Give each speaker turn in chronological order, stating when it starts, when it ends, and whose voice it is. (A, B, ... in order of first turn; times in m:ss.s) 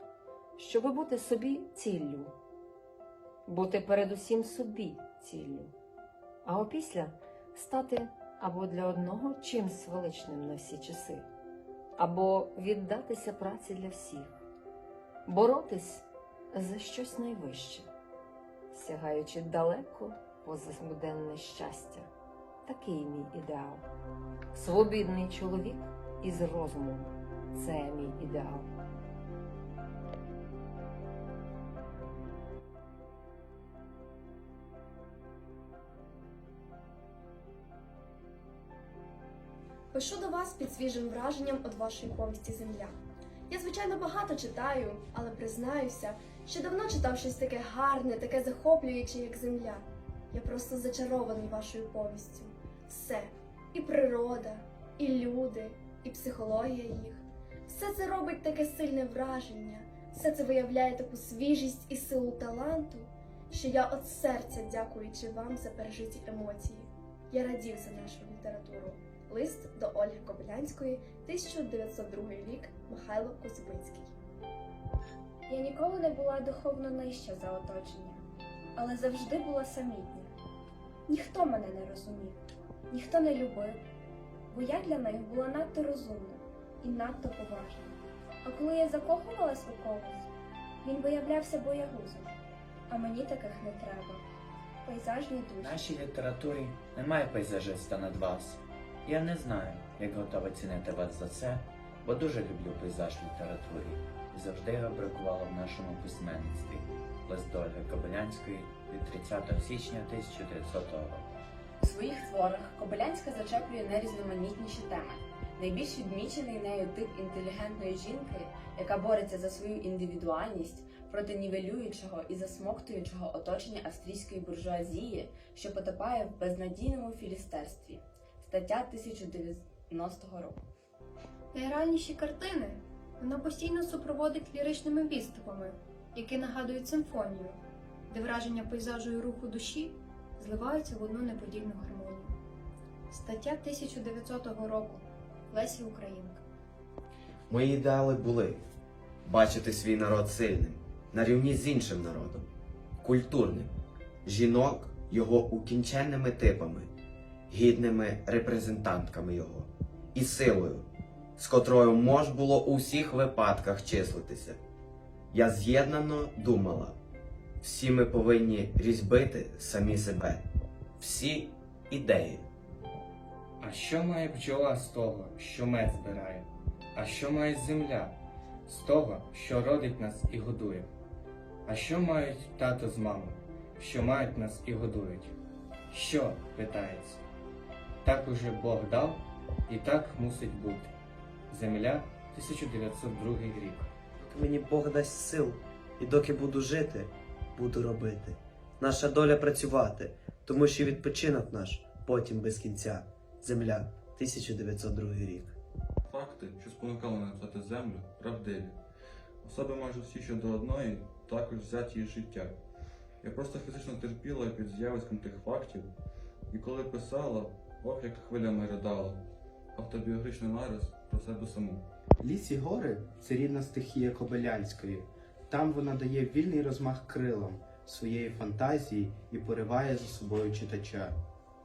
0:00.6-0:02.3 A
0:03.5-0:05.7 A
0:06.4-0:11.2 A
0:12.0-0:14.4 A
0:15.3-0:17.9 A
0:18.7-0:22.1 A
0:22.6-0:23.8 A
0:24.5-0:28.7 A
0:39.9-0:43.0 B
0:43.5-1:14.1 B
1:15.5-1:18.2 C
1:18.8-1:20.4 C
1:21.1-1:23.8 C
1:24.5-1:30.3 C
1:30.8-1:32.3 C
1:32.9-1:34.3 C
1:34.8-1:36.0 C
1:35.6-1:51.3 D
1:51.8-2:10.6 E
2:11.5-2:22.4 F
2:23.1-2:26.4 F
2:27.5-2:28.6 G
2:29.2-2:32.5 G
2:33.0-2:33.7 G
2:34.2-2:36.9 G
2:37.5-2:40.9 G
2:41.4-2:44.6 G
2:45.3-2:47.0 G
2:47.6-2:50.4 G
2:51.0-2:52.5 G
2:53.6-2:58.2 H
2:58.7-3:00.9 H
3:01.7-3:05.4 H
3:05.9-3:07.2 H
3:08.0-3:10.9 H
3:11.5-3:13.9 H
3:14.2-3:25.6 I
3:26.1-3:28.8 J
3:29.4-3:32.6 J
3:33.2-3:35.9 J
3:36.5-3:39.2 J
3:39.8-3:41.8 J
3:42.2-3:51.2 K